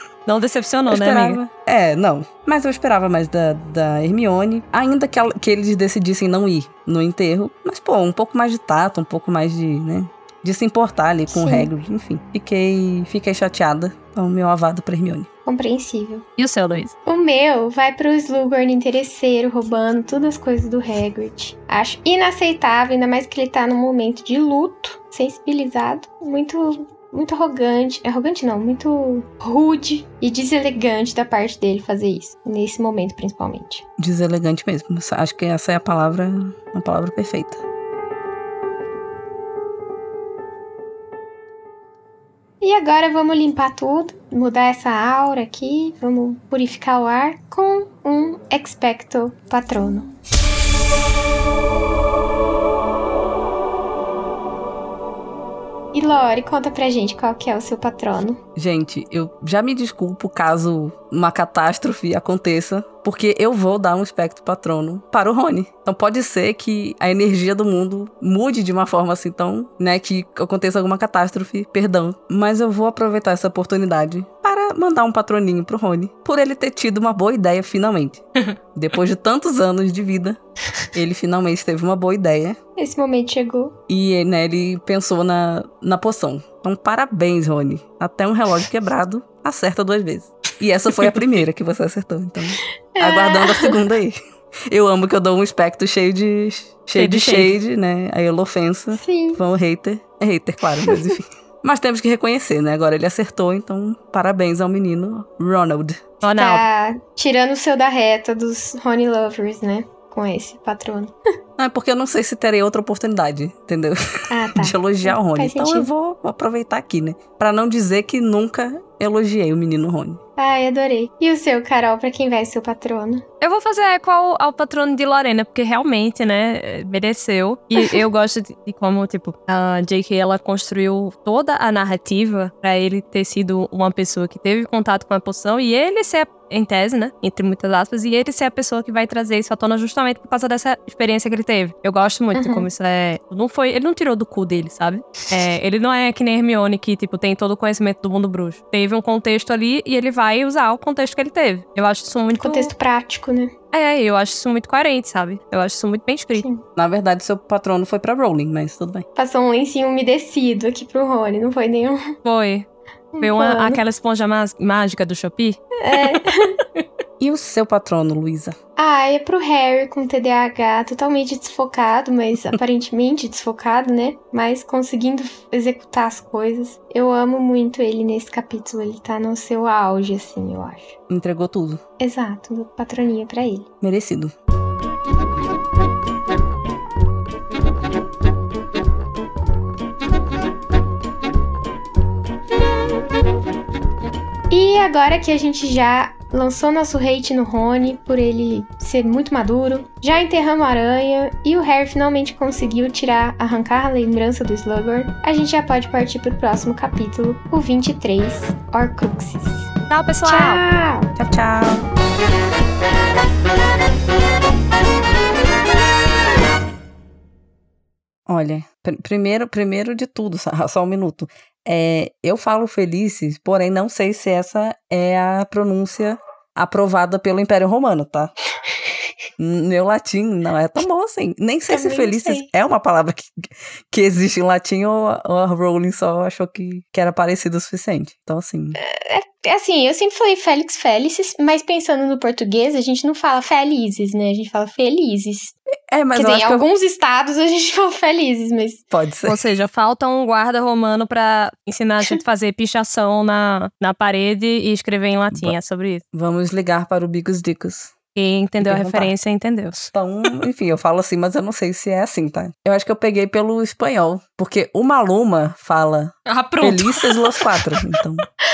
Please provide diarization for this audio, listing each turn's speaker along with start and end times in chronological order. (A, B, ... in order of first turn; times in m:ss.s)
0:00.2-0:01.4 A
0:00.9-0:15.3 B
0:11.3-0:11.7 C
0:15.4-0:16.2 C
0:16.4-0:16.9 A
0:17.0-0:33.8 C
0:34.0-0:37.6 B
0:42.6-0:50.1 C
0:55.9-0:58.4 C
0:58.6-1:18.2 B
1:18.7-1:20.4 B
1:20.9-1:22.6 B
1:22.8-1:23.8 C
1:23.9-1:34.2 B
1:32.9-1:33.8 C
1:34.7-1:46.0 B
1:37.0-1:37.6 A
1:38.9-1:39.4 C
1:46.2-1:46.6 A
1:46.4-1:51.1 C
1:51.6-1:54.0 B
1:54.3-1:55.9 C
1:54.5-2:00.2 B
2:00.4-2:03.2 C
2:03.4-2:32.7 A
2:22.3-2:22.7 C
2:32.4-2:33.5 C
2:33.7-2:36.4 A
2:36.4-2:36.6 C
2:36.8-2:39.0 B
2:39.2-2:42.2 C
2:42.2-2:42.7 A
2:43.1-2:43.8 C
2:43.2-2:46.2 A
2:45.8-2:46.6 C
2:47.2-2:48.5 B
2:48.8-3:01.0 C
3:01.1-3:01.8 B
3:02.0-3:03.7 C
3:03.8-3:04.3 B
3:14.5-3:29.7 C
3:29.9-3:30.6 A
3:30.2-3:31.1 C
3:31.2-3:31.8 B
3:38.3-3:48.3 B
3:49.4-3:58.8 B
3:51.7-3:52.5 C
3:58.8-4:05.5 C
4:05.9-4:06.6 B
4:06.1-4:08.8 C
4:08.9-4:09.4 B
4:09.2-4:16.0 A
4:15.3-4:15.6 B
4:16.1-4:18.0 B
4:18.1-4:19.8 A
4:18.6-4:19.1 B
4:19.9-4:28.2 B
4:26.3-4:28.0 A